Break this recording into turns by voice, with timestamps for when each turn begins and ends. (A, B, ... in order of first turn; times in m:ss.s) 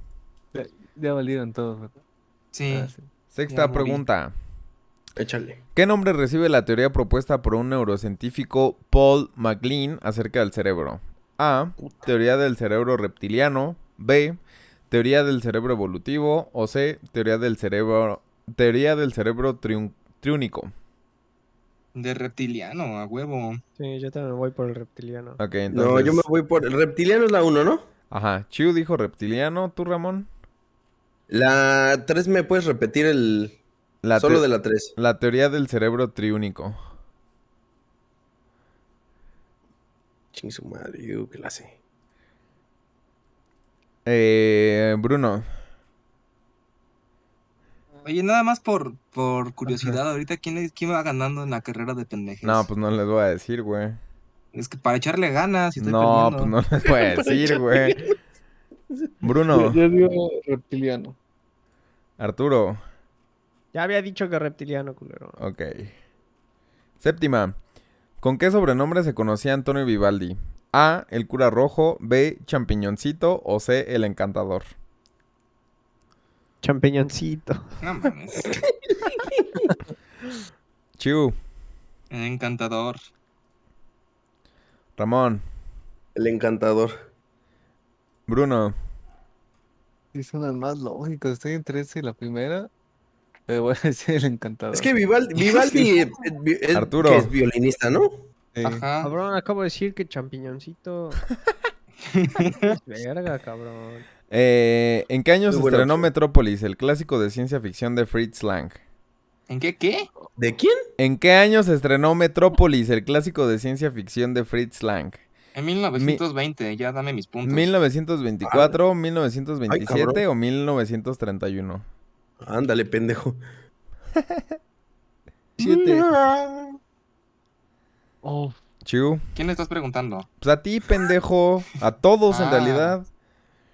0:00.5-0:02.0 A
0:02.5-0:02.9 B
0:02.7-0:03.1 A
0:03.3-0:04.3 C
0:03.5-0:04.0 B
0:05.2-0:05.6 D
0:05.8-0:14.4 C
0:14.9-0:20.7 C
0:21.9-0:23.6 B
0:23.8-0:25.4 E
0:25.4-0:26.2 C
0:25.7-0:27.9 D
0:28.1-0:30.3 C
0:31.3-0:33.6 D
0:34.0-0:36.8 C
0:34.2-0:34.9 D
0:40.3-0:41.7 D
0:44.0-0:45.4 C
0:48.0-0:52.7 B
0:52.4-0:54.0 C
0:54.5-0:56.5 B
0:55.8-0:58.0 C
0:56.8-0:58.1 D
0:59.2-0:59.8 C
0:59.5-1:01.2 A
1:02.2-1:02.8 C
1:03.7-1:05.4 E
1:05.4-1:05.9 C
1:07.0-1:07.6 C
1:08.2-1:14.7 C
1:16.6-1:17.7 E
1:17.8-1:18.6 B
1:19.1-1:19.7 D
1:21.0-1:21.4 C
1:22.1-1:23.0 B
1:25.0-1:25.4 C
1:26.2-1:26.9 D
1:28.3-1:28.8 C
1:30.1-1:32.7 A
1:33.5-1:34.9 A
1:34.7-1:38.2 D
1:36.7-1:37.3 C
1:38.5-1:38.8 A
1:38.6-1:39.1 B
1:39.0-1:41.2 E
1:42.0-1:42.7 B
1:42.6-1:44.0 E
1:44.3-1:48.8 C
1:45.5-1:46.1 D
1:49.5-1:50.1 B
1:50.4-1:50.8 D
1:51.0-1:55.2 C
1:55.5-1:57.7 B
1:56.0-1:56.2 C
1:57.4-2:01.8 C
1:58.4-1:58.8 D
1:59.7-2:00.2 D
2:02.4-2:03.4 D
2:04.2-2:04.4 C
2:05.6-2:06.1 C
2:05.6-2:06.8 D
2:08.2-2:08.6 A
2:08.8-2:09.2 C
2:09.4-2:10.3 B
2:10.4-2:13.1 C
2:12.3-2:13.0 B